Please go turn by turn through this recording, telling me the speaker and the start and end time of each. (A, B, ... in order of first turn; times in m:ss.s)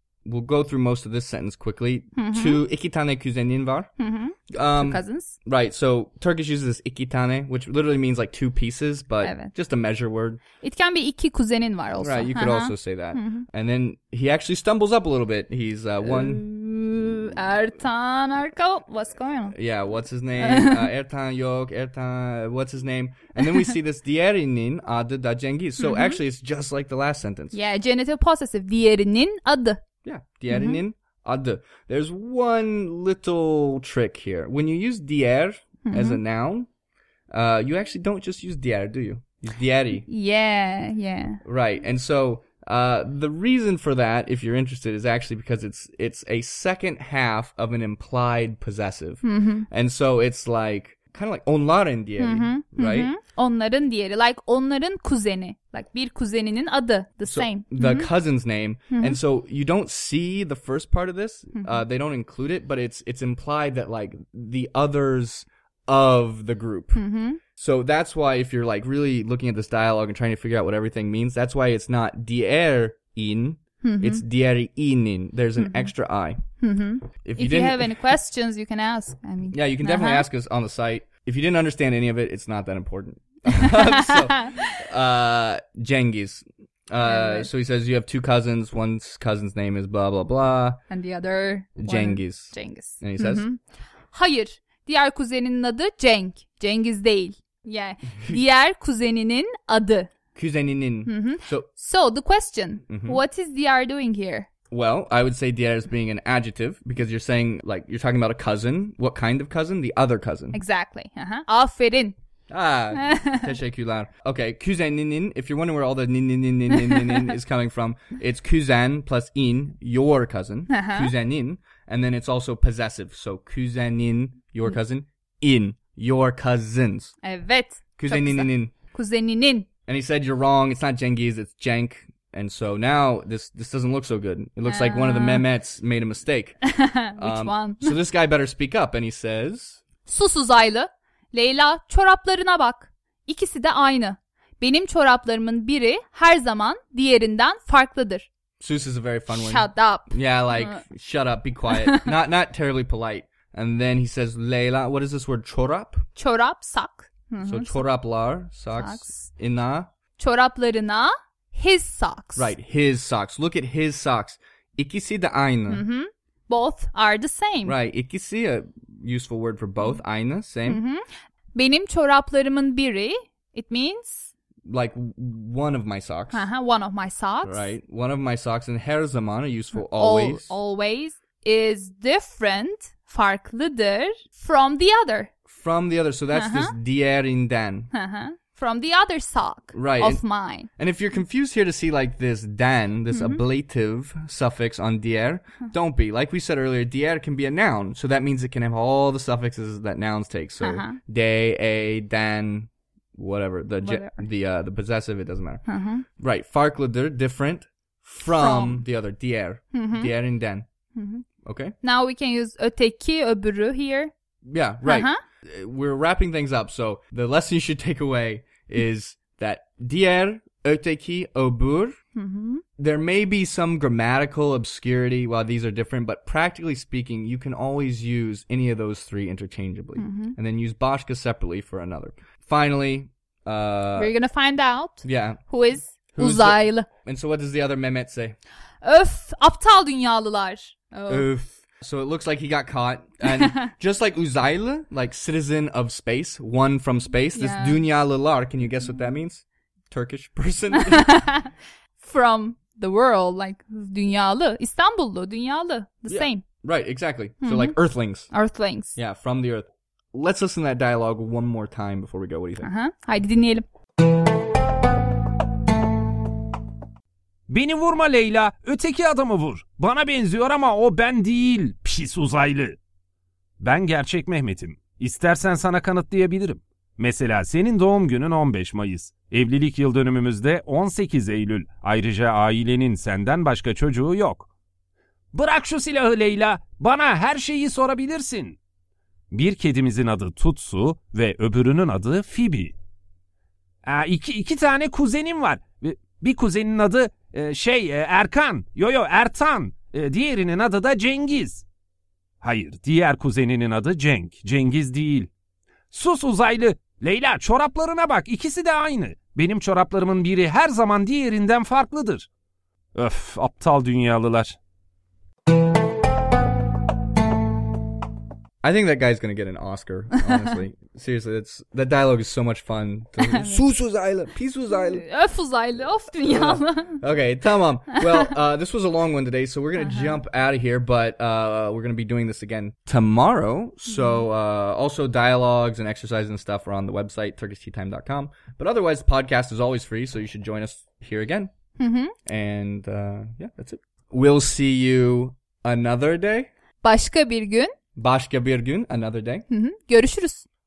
0:00.2-0:03.9 A
0:02.2-0:02.6 B
0:04.0-0:05.4 B
0:04.5-0:10.4 A
0:09.2-0:09.5 B
0:10.6-0:13.4 B
0:12.0-0:16.4 A
0:16.0-0:19.5 B
0:19.5-0:27.6 A
0:20.4-0:20.9 B
0:25.8-0:26.2 B
0:27.5-0:29.8 B
0:30.0-0:36.7 A
0:30.5-0:30.8 B
0:35.8-0:36.2 B
0:37.3-0:40.0 A
0:40.0-0:41.4 B
0:41.4-0:53.2 A
0:49.2-0:49.7 B
0:52.2-0:58.1 B
0:57.2-1:07.0 A
0:58.9-0:59.2 B
1:01.6-1:01.8 B
1:06.9-1:07.4 B
1:07.5-1:16.4 A
1:13.8-1:14.2 B
1:15.6-1:15.9 B
1:16.6-1:20.3 B
1:17.2-1:17.9 A
1:19.5-1:30.8 A
1:23.5-1:24.8 B
1:27.0-1:27.5 B
1:30.9-1:40.1 B
1:31.8-1:33.5 A
1:40.3-1:41.7 A
1:41.0-1:44.5 B
1:42.9-1:43.2 A
1:44.7-1:50.6 A
1:50.5-1:52.1 B
1:52.5-2:07.1 A
1:53.0-1:53.5 B
1:56.8-1:57.2 B
2:00.7-2:01.1 B
2:07.2-2:09.7 B
2:08.0-2:08.7 A
2:09.8-2:16.6 A
2:14.6-2:15.5 B
2:16.6-2:17.9 B
2:17.2-2:19.8 A
2:20.0-2:28.3 B
2:28.6-2:36.0 A
2:29.3-2:30.8 B
2:31.7-2:32.1 B
2:36.1-2:37.8 B
2:37.4-2:39.9 A
2:38.7-2:39.3 B
2:40.2-2:42.6 B
2:42.4-2:45.8 A
2:45.7-2:47.8 B
2:47.6-2:50.8 A
2:50.6-2:54.3 B
2:54.6-2:56.4 A
2:56.3-2:57.7 B
2:57.4-3:00.5 A
2:59.7-3:05.3 B
3:05.5-3:07.9 A
3:06.3-3:06.7 B
3:07.9-3:10.7 B
3:09.7-3:10.2 A
3:10.8-3:25.6 A
3:13.1-3:13.4 B
3:20.6-3:21.0 B
3:23.8-3:24.2 B
3:25.6-3:26.0 B
3:26.2-3:30.6 A
3:28.2-3:28.8 B
3:29.7-3:30.1 B
3:30.9-3:31.2 B
3:31.4-3:31.7 A
3:31.8-3:34.1 B
3:34.4-3:42.0 A
3:34.8-3:35.2 B
3:42.1-3:42.6 B
3:42.8-3:54.1 A
3:50.0-3:50.4 B
3:54.0-3:56.9 B
3:55.0-3:55.4 A
3:56.1-3:58.4 A
3:58.8-4:01.3 B
4:01.1-4:11.2 A
4:03.2-4:03.7 B
4:07.3-4:07.8 B
4:10.7-4:16.4 B
4:16.1-4:18.3 A
4:17.4-4:17.8 B
4:18.3-4:19.0 B
4:19.0-4:22.7 A
4:22.6-4:23.6 B
4:27.5-4:32.8 C
4:33.6-4:44.5 C
4:45.3-4:48.6 C
4:49.3-4:52.7 C
4:53.8-5:01.6 C
5:02.4-5:05.3 C
5:05.9-5:12.3 C
5:12.9-5:14.6 C
5:18.6-5:25.0 A
5:23.2-5:23.6 B
5:24.7-5:27.0 B
5:26.3-5:41.5 A
5:27.9-5:28.3 B
5:29.8-5:30.2 B
5:33.9-5:34.2 B
5:41.8-5:42.1 B
5:42.2-5:46.5 A
5:46.8-5:47.7 B
5:48.0-5:49.4 A
5:49.5-5:50.4 B